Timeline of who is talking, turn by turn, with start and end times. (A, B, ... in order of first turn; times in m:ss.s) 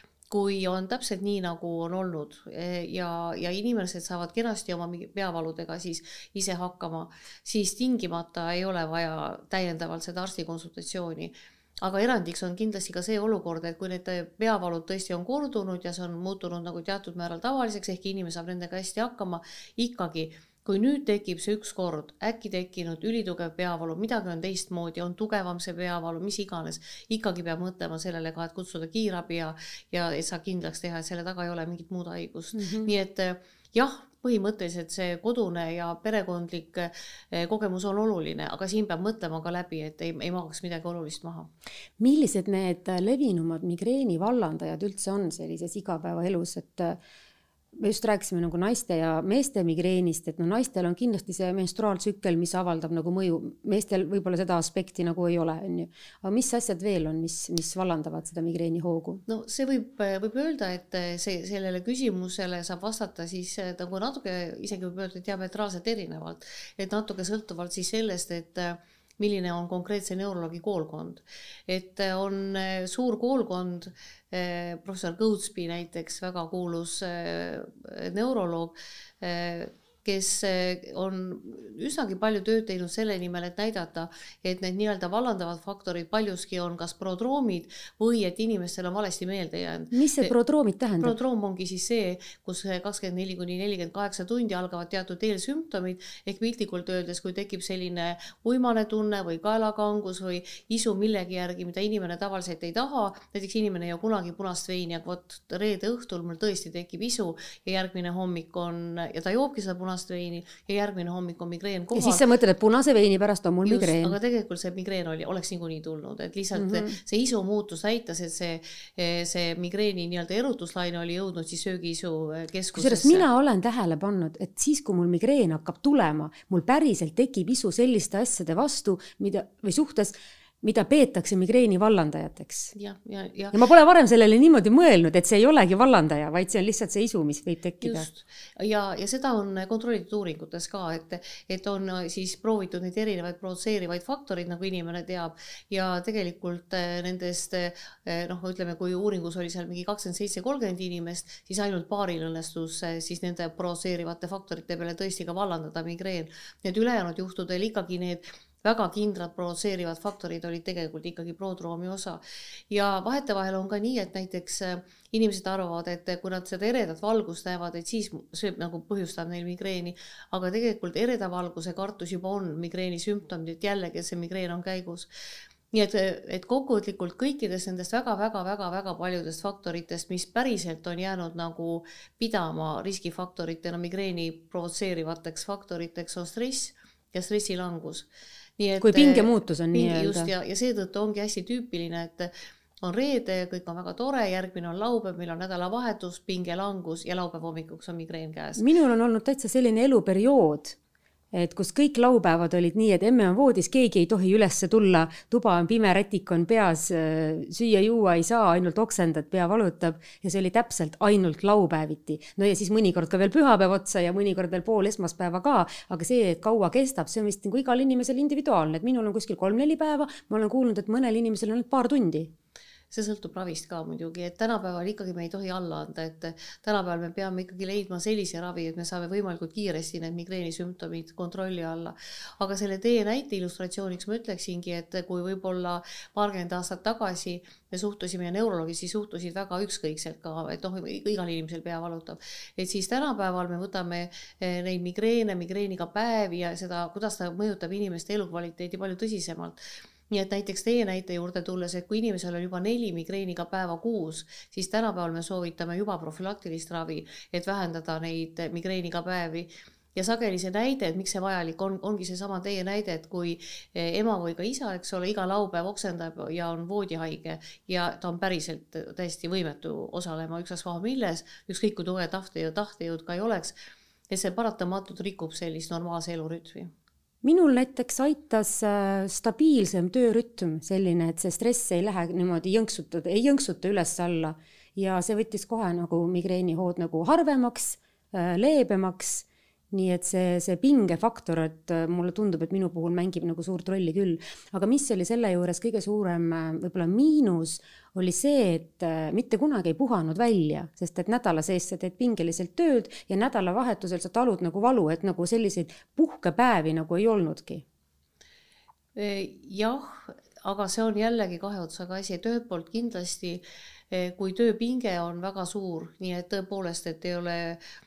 0:00.3-0:41.5 A
0:32.5-0:32.9 B
0:42.0-0:47.0 B
0:47.7-0:59.2 B
0:59.3-1:30.3 A
1:29.9-1:31.2 B
1:31.0-1:52.2 A
1:51.9-1:54.2 B
1:53.6-2:03.2 A
1:56.5-1:57.0 B
2:02.7-2:12.7 B
2:12.7-2:13.6 A
2:13.5-2:18.1 B
2:17.8-2:42.2 A
2:42.7-2:55.1 A
2:55.7-3:08.1 A
3:08.6-3:12.3 A
3:08.8-3:10.3 B
3:12.8-3:18.6 A
3:18.6-3:20.8 B
3:21.3-3:42.3 B
3:42.9-4:09.6 A
4:10.1-4:33.5 A
4:34.1-4:36.7 A
4:37.2-5:07.6 B
5:09.0-5:17.6 A